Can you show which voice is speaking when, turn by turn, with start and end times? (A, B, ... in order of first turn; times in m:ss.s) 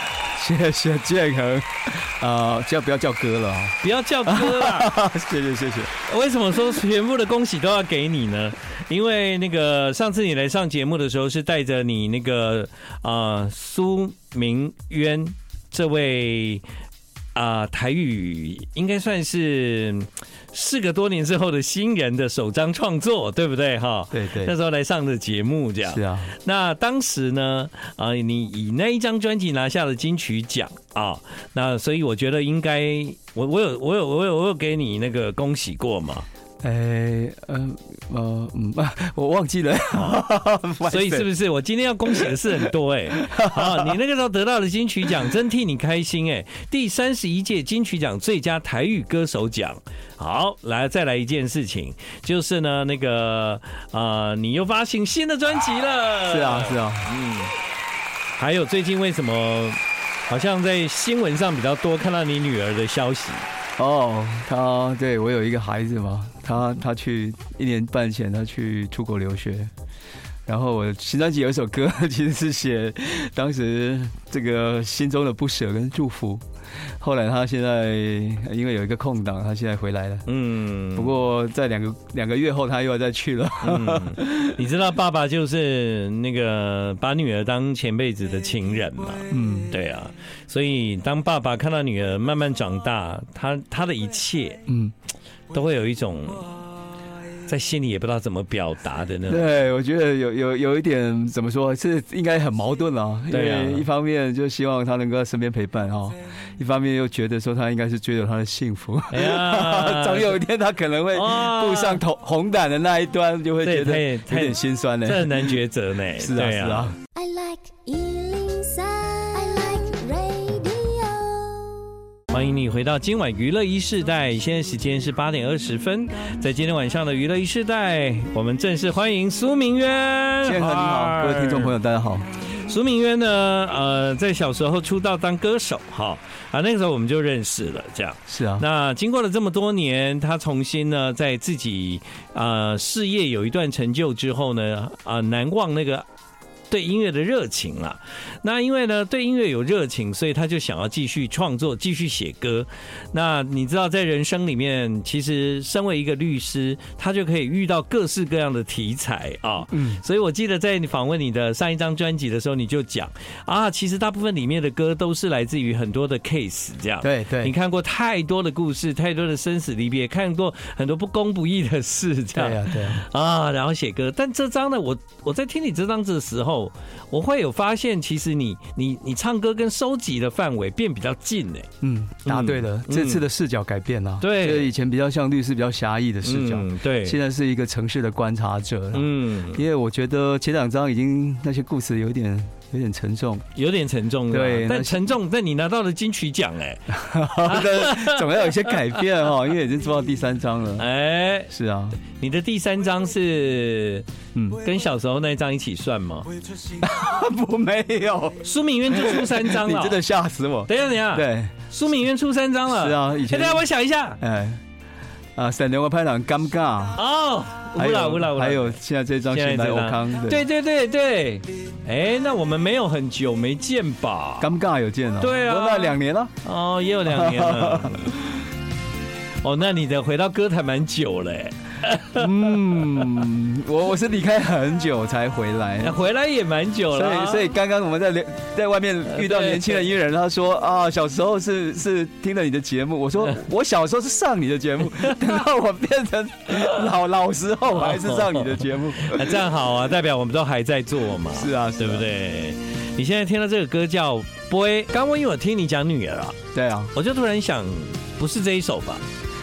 0:00.3-0:05.9 A
0:03.8-0:04.9 B
0:06.0-0:16.6 B
0:17.3-0:36.2 B
0:24.1-0:24.5 A
0:25.8-0:26.3 A
0:36.6-0:41.3 A
0:40.8-0:57.5 B
0:43.1-0:43.9 A
0:56.3-0:57.1 A
0:58.3-1:03.4 B
1:03.8-1:09.7 A
1:10.5-1:16.4 A
1:17.0-1:20.3 A
1:20.3-1:21.2 B
1:20.9-1:24.6 A
1:23.6-1:34.6 B
1:29.3-1:29.7 A
1:34.7-1:34.9 A
1:35.5-1:36.6 B
1:37.4-1:39.4 B
1:39.3-1:55.6 A
1:43.3-1:43.8 B
1:49.1-1:50.4 B
1:51.1-1:52.0 B
1:53.6-1:57.0 B
1:56.2-1:57.0 A
1:57.1-2:01.9 C
2:02.3-2:11.7 B
2:10.4-2:12.2 A
2:12.5-2:26.0 B
2:18.3-2:18.6 A
2:26.7-3:01.7 B
2:39.7-2:40.0 A
2:47.0-2:47.5 A
2:52.3-2:53.0 A
3:01.8-3:13.4 A
3:02.2-3:03.2 B
3:04.2-3:04.7 B
3:06.2-3:07.2 B
3:08.9-3:09.6 B
3:13.5-3:19.0 B
3:14.3-3:15.1 A
3:16.9-3:20.8 A
3:20.8-3:21.5 B
3:21.5-3:22.0 A
3:22.1-3:24.1 B
3:24.3-3:24.6 A
3:24.6-3:26.3 B
3:26.8-3:31.5 A
3:28.4-3:30.0 B
3:30.7-3:34.2 B
3:32.7-3:33.6 A
3:34.2-3:34.6 A
3:35.4-3:37.0 A
3:36.9-3:38.8 B
3:37.7-3:40.4 A
3:39.3-3:44.5 B
3:44.4-3:46.3 A
3:45.2-3:48.1 B
3:47.1-3:48.4 A
3:49.4-3:52.3 B
3:52.1-3:56.0 A
3:55.8-3:57.5 B
3:56.9-4:09.4 A
3:59.2-3:59.8 B
4:07.8-4:16.4 B
4:11.3-4:12.1 A
4:16.5-4:16.9 A
4:16.9-4:19.0 B